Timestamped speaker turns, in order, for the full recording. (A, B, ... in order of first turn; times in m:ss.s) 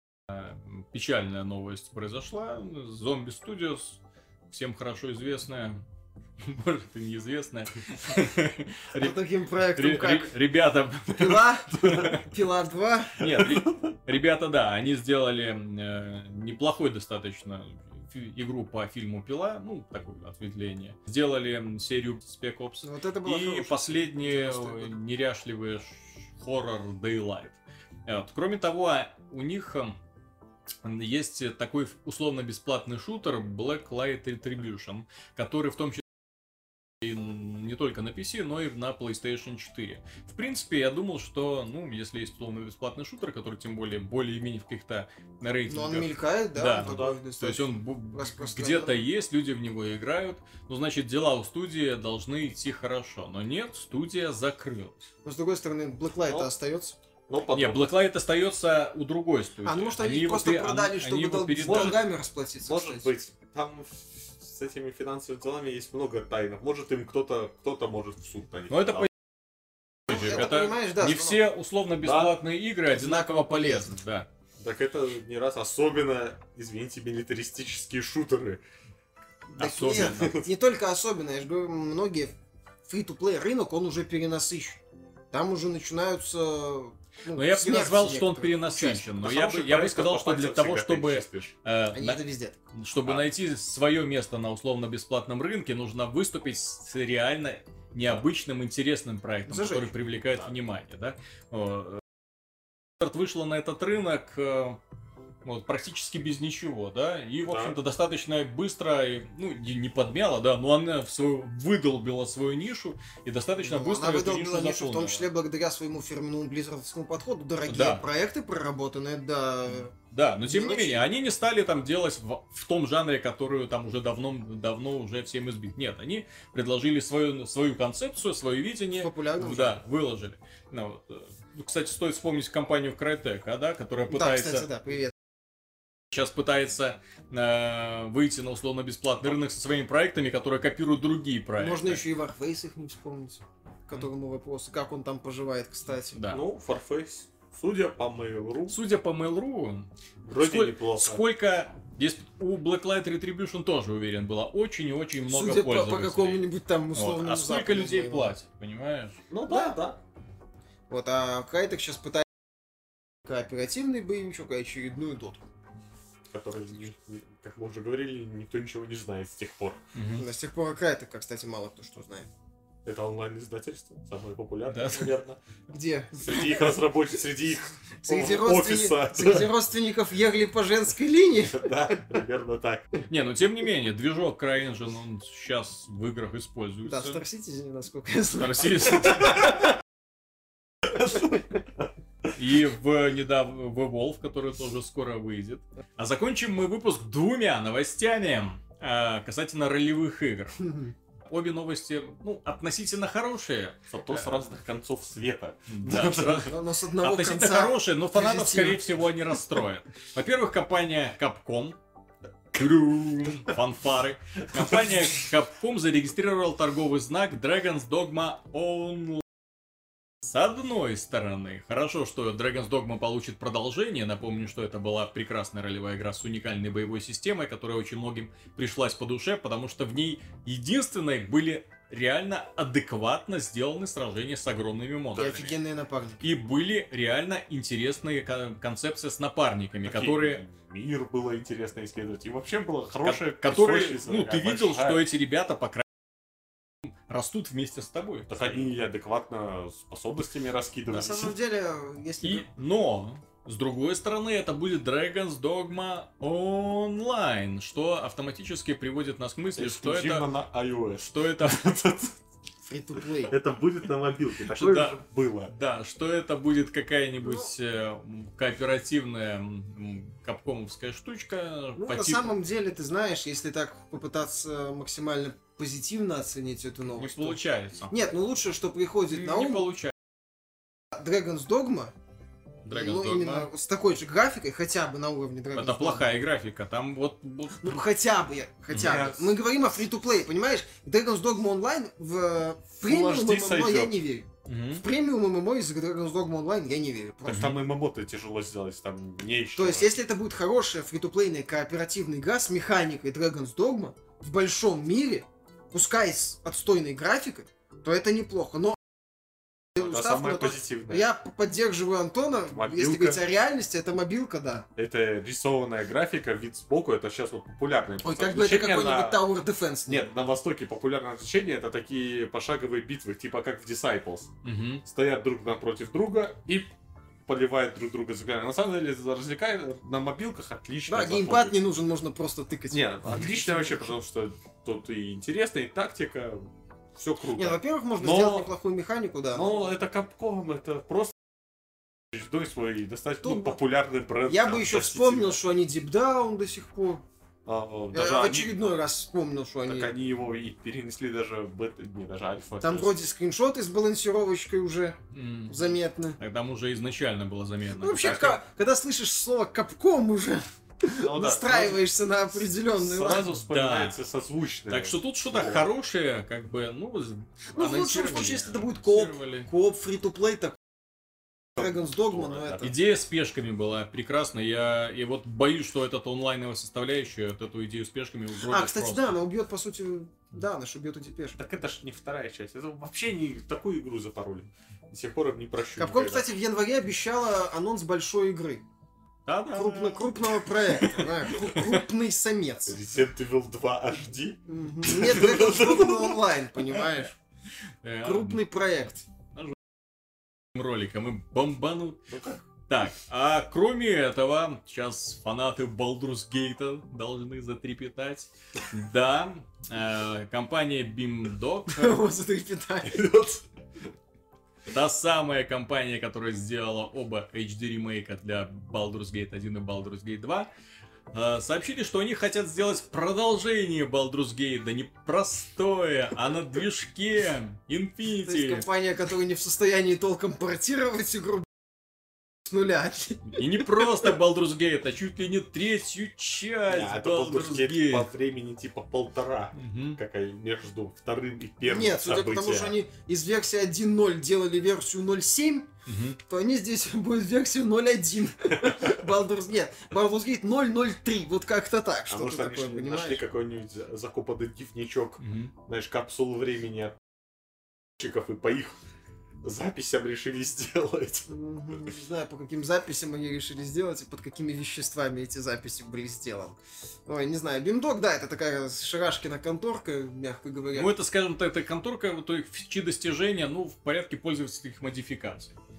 0:00.3-0:04.0 A
0:04.5-0:05.8 A
0:06.4-0:09.2 A
0:09.0-0:10.3 B
0:09.7-0:12.3 A
0:11.1-0:13.2 B
0:13.2-0:30.0 A
0:13.2-0:13.7 C
0:22.8-0:24.9 B
0:30.8-0:36.0 A
0:37.0-0:55.1 A
0:45.7-0:49.0 B
0:46.8-0:47.2 C
0:55.2-0:57.0 B
0:57.3-0:57.9 C
0:57.5-1:02.0 A
0:59.6-1:03.1 B
1:01.6-1:02.0 C
1:02.6-1:09.1 C
1:08.7-1:09.1 A
1:10.1-1:11.4 B
1:10.1-1:14.3 A
1:12.0-1:12.4 C
1:12.9-1:13.9 B
1:14.6-1:18.6 C
1:19.6-1:20.3 A
1:19.6-1:29.2 B
1:19.8-1:20.5 C
1:27.3-1:42.0 A
1:29.2-1:31.6 C
1:31.9-1:32.6 B
1:39.5-1:39.9 B
1:43.0-1:44.8 A
1:45.4-1:55.3 A
1:47.4-1:47.8 C
1:53.6-1:59.9 B
1:57.7-1:58.0 A
1:59.7-2:14.7 A
2:00.4-2:01.0 B
2:09.0-2:09.8 B
2:14.1-2:15.1 B
2:16.1-2:22.0 A
2:21.6-2:26.2 B
2:26.1-2:26.4 A
2:26.3-2:28.8 C
2:28.7-2:39.2 A
2:30.2-2:31.2 C
2:35.2-2:38.3 B
2:39.3-2:40.0 C
2:39.5-2:39.8 B
2:40.9-2:42.3 B
2:43.2-2:45.4 B
2:46.3-2:49.8 C
2:49.9-2:50.3 A
2:50.2-2:52.3 B
2:52.9-2:55.4 C
2:54.7-2:55.1 A
2:55.7-2:56.7 B
2:56.2-2:59.5 C
2:58.0-3:01.9 B
3:01.4-3:03.0 C
3:03.1-3:07.2 A
3:06.9-3:09.5 B
3:08.4-3:09.4 A
3:11.0-3:11.3 C
3:12.4-3:24.5 A
3:23.9-3:26.5 C
3:25.7-3:31.8 A
3:26.4-3:28.9 B
3:32.5-3:39.2 A
3:34.6-3:35.2 C
3:40.2-3:55.5 A
3:55.1-3:55.5 C
3:55.2-3:56.2 B
3:56.2-4:00.4 A
3:59.8-4:05.0 C
4:03.0-4:05.8 A
4:07.1-4:08.6 A
4:08.3-4:11.4 C
4:10.9-4:12.5 B
4:12.2-4:20.3 A
4:19.6-4:22.1 C
4:21.1-4:21.6 A
4:22.6-4:23.4 B
4:23.3-4:25.5 C
4:24.6-4:32.4 A
4:27.2-4:27.5 B
4:31.8-4:37.4 B
4:37.0-4:37.9 A
4:37.9-4:39.8 B
4:39.1-4:39.9 A
4:40.9-4:41.9 B
4:42.6-4:43.5 A
4:42.7-4:46.1 B
4:45.6-4:47.8 A
4:47.6-4:57.6 B
4:48.7-4:49.0 A
4:48.7-4:49.3 C
4:52.9-4:54.0 C
4:54.4-4:54.8 A
4:57.3-4:59.9 C
4:57.3-4:57.6 A
4:59.6-5:08.8 B
5:09.7-5:14.7 B
5:09.8-5:11.0 C
5:12.5-5:13.2 C
5:14.8-5:19.2 C
5:18.0-5:20.1 B
5:19.9-5:24.3 C
5:24.4-5:24.8 A
5:24.8-5:26.7 C
5:27.3-5:31.6 C
5:30.9-5:33.7 B
5:32.7-5:38.5 C
5:37.4-5:39.5 B
5:39.3-5:41.1 C
5:42.1-5:45.4 C
5:43.2-5:43.6 B
5:44.3-5:47.0 B
5:47.4-5:48.5 C
5:47.9-5:49.9 B
5:49.7-5:52.9 C
5:52.6-5:56.2 B
5:55.1-5:58.3 A
5:57.8-6:03.3 B
6:00.9-6:01.8 C
6:02.8-6:05.6 C
6:03.2-6:04.0 A
6:04.7-6:09.5 A
6:07.6-6:10.6 B
6:11.6-6:12.7 B
6:11.6-6:12.7 C
6:12.6-6:19.2 A
6:18.4-6:21.4 B
6:21.4-6:26.3 C
6:25.8-6:28.6 B
6:29.3-6:31.8 A
6:29.5-6:32.8 B
6:32.7-6:36.2 C
6:34.5-6:37.2 B
6:37.8-6:38.4 A
6:38.0-6:39.0 B
6:40.5-6:42.0 A
6:42.1-6:42.4 C
6:42.7-6:52.0 A
6:51.7-6:53.1 B
6:52.8-6:53.4 C
6:54.7-7:00.5 A
7:01.1-7:08.7 A
7:08.2-7:11.5 B
7:12.4-7:14.1 B
7:13.3-7:18.1 A
7:16.7-7:22.8 C
7:19.6-7:20.0 A
7:21.6-7:25.7 B
7:25.9-7:26.2 A
7:26.3-7:33.3 B
7:32.1-7:37.0 C
7:35.2-7:35.5 A
7:38.0-7:38.8 C
7:39.4-7:41.3 C
7:41.3-7:50.9 B
7:50.7-7:55.6 A